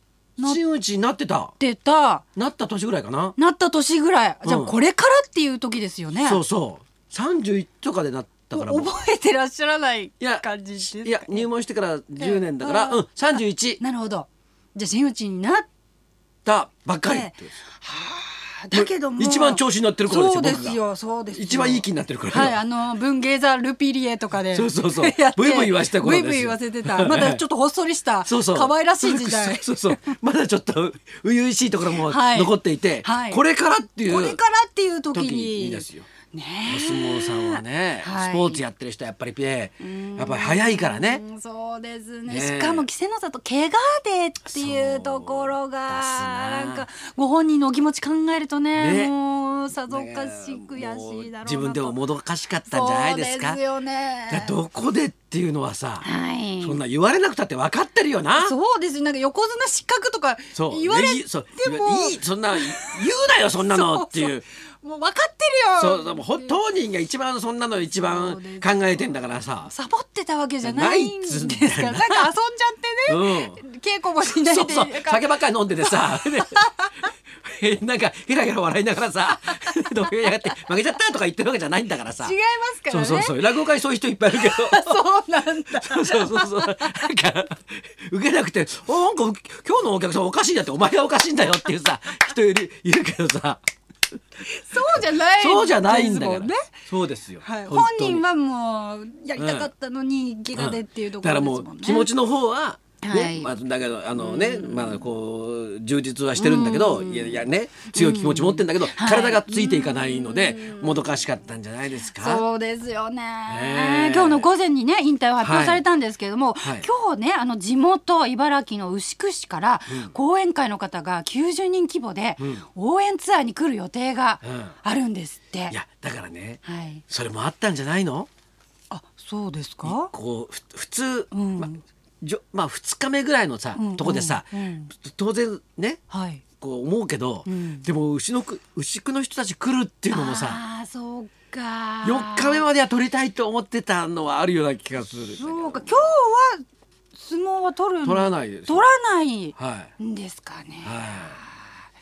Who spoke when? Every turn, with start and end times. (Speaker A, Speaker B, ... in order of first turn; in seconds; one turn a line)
Speaker A: 0.4-1.5
Speaker B: 1.6-2.2
Speaker A: 2.4-3.4
Speaker B: 3.4-6.4
Speaker A: 4.5-4.7
Speaker A: 6.2-8.9
Speaker B: 8.5-11.5
Speaker A: 10.2-13.8
Speaker B: 12.2-13.0
Speaker B: 13.8-15.7
Speaker A: 16.4-17.6
Speaker B: 17.0-30.2
Speaker A: 18.7-20.8
Speaker A: 21.3-22.6
Speaker A: 24.5-27.4
Speaker A: 28.3-34.4
Speaker B: 31.9-33.4
Speaker B: 34.1-38.6
Speaker A: 35.1-36.1
Speaker A: 36.7-41.2
Speaker B: 39.8-52.0
Speaker A: 42.3-42.9
Speaker A: 44.5-46.9
Speaker A: 48.8-49.1
Speaker A: 49.9-53.6
Speaker B: 52.7-54.6
Speaker A: 54.3-56.1
Speaker B: 56.0-56.8
Speaker A: 56.6-58.5
Speaker B: 58.4-66.6
Speaker A: 60.5-64.4
Speaker A: 65.8-69.7
Speaker B: 68.0-69.1
Speaker B: 69.7-77.1
Speaker A: 70.6-72.3
Speaker A: 73.1-73.6
Speaker A: 74.3-76.6
Speaker A: 77.3-82.3
Speaker B: 79.5-80.5
Speaker B: 82.2-83.5
Speaker A: 82.9-85.0
Speaker B: 84.3-87.1
Speaker A: 85.7-93.6
Speaker B: 94.4-96.8
Speaker A: 94.8-98.2
Speaker B: 97.4-102.1
Speaker A: 99.4-99.7
Speaker A: 100.5-112.5
Speaker B: 103.0-103.5
Speaker B: 104.2-105.1
Speaker B: 106.4-111.2
Speaker B: 112.2-125.8
Speaker A: 113.5-114.5
Speaker A: 115.4-115.8
Speaker A: 116.6-116.9
Speaker A: 119.9-120.2
Speaker A: 122.4-122.7
Speaker A: 124.4-124.8
Speaker A: 125.7-128.3
Speaker B: 126.7-127.0
Speaker B: 128.9-130.1
Speaker A: 129.8-136.0
Speaker B: 131.3-131.8
Speaker B: 133.8-134.9
Speaker B: 136.1-136.4
Speaker A: 136.6-140.6
Speaker B: 137.5-137.9
Speaker B: 140.1-142.7
Speaker A: 142.0-146.1
Speaker B: 145.3-151.6
Speaker A: 148.1-148.9
Speaker A: 149.6-149.9
Speaker A: 150.8-151.4